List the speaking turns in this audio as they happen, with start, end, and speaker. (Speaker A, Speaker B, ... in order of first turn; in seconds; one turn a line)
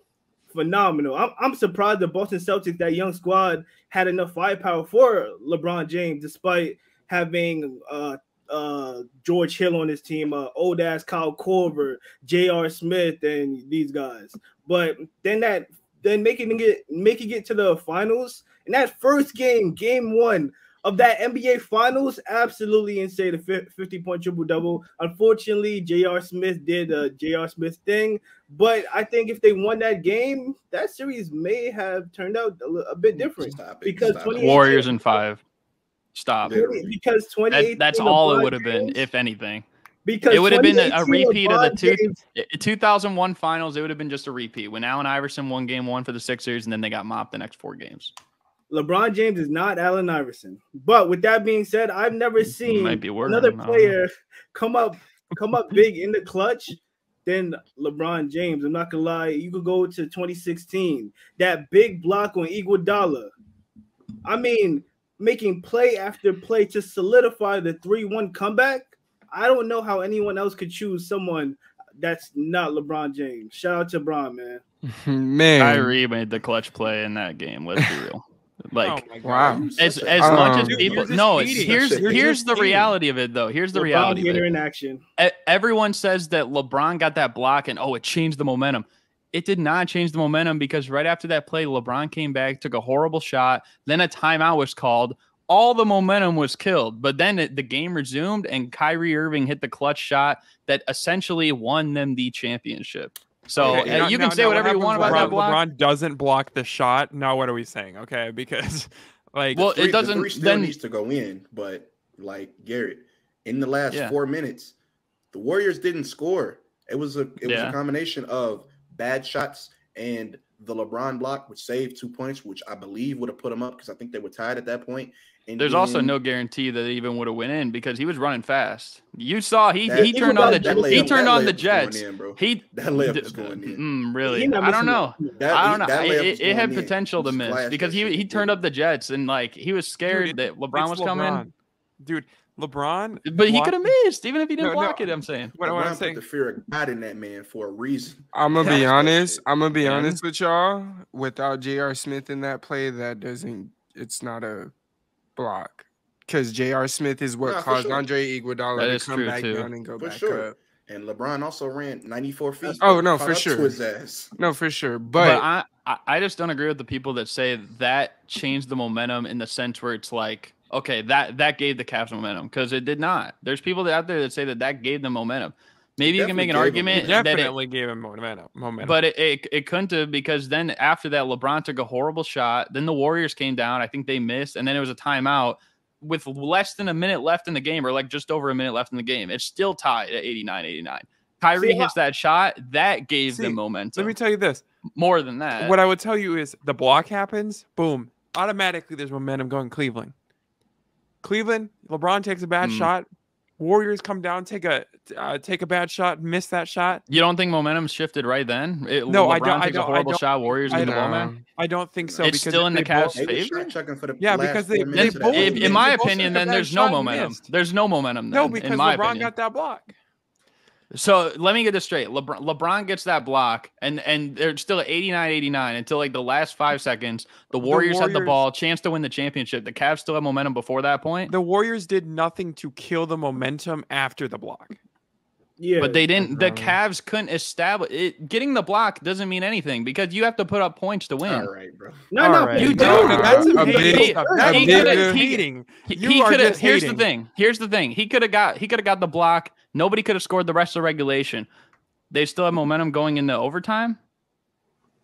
Speaker A: 0.5-35.2
Speaker B: 33.2-34.8
Speaker C: 34.4-35.4
Speaker C: 36.1-36.6
Speaker B: 36.4-36.9
Speaker A: 36.5-39.0
Speaker C: 37.5-39.7
Speaker A: 40.0-42.2
Speaker C: 40.3-48.1
Speaker A: 48.7-63.3
Speaker C: 52.5-54.0
Speaker A: 64.2-74.6
Speaker D: 74.8-75.9
Speaker C: 75.6-79.0
Speaker E: 78.8-83.0
Speaker D: 79.2-79.7
Speaker B: 79.3-82.3
Speaker C: 79.8-84.5
Speaker D: 80.2-80.8
Speaker A: 83.8-85.0
Speaker C: 85.2-105.6
Speaker E: 103.6-109.7
Speaker B: 103.6-104.0
Speaker D: 104.4-105.3
Speaker C: 109.5-110.8
Speaker B: 109.6-114.7
Speaker B: 115.3-126.2
Speaker C: 117.4-117.8
Speaker C: 125.6-141.4
Speaker B: 129.8-133.8
Speaker A: 129.9-131.4
Speaker A: 134.2-135.4
Speaker B: 135.4-138.6
Speaker E: 140.1-143.8
Speaker C: 143.3-145.6
Speaker E: 145.6-146.2
Speaker B: 145.6-149.4
Speaker D: 148.3-154.7
Speaker C: 149.8-150.2
Speaker D: 155.4-160.6
Speaker B: 157.4-158.1
Speaker C: 158.8-159.7
Speaker B: 160.0-164.3
Speaker D: 162.8-163.8
Speaker D: 164.4-165.5
Speaker C: 165.2-177.5
Speaker B: 176.0-177.2
Speaker E: 177.0-179.0
Speaker C: 178.8-194.2
Speaker A: 191.6-191.9
Speaker E: 193.3-194.6
Speaker C: 195.0-195.8
Speaker E: 195.6-200.1
Speaker E: 201.2-203.1
Speaker C: 202.6-202.9
Speaker E: 203.6-207.0
Speaker C: 207.1-211.3
Speaker E: 209.1-213.2
Speaker D: 210.7-211.4
Speaker B: 212.0-212.3
Speaker C: 212.2-213.7
Speaker B: 213.1-216.4
Speaker E: 214.2-217.4
Speaker C: 214.9-219.3
Speaker E: 218.3-219.9
Speaker C: 220.9-231.3
Speaker E: 227.6-228.4
Speaker E: 231.3-234.8
Speaker A: 235.6-236.1
Speaker C: 235.8-241.5
Speaker D: 236.2-236.8
Speaker B: 241.2-242.1
Speaker A: 242.1-244.8
Speaker C: 242.2-251.5
Speaker E: 242.6-247.1
Speaker B: 242.6-243.2
Speaker D: 242.8-245.2
Speaker C: 252.1-254.0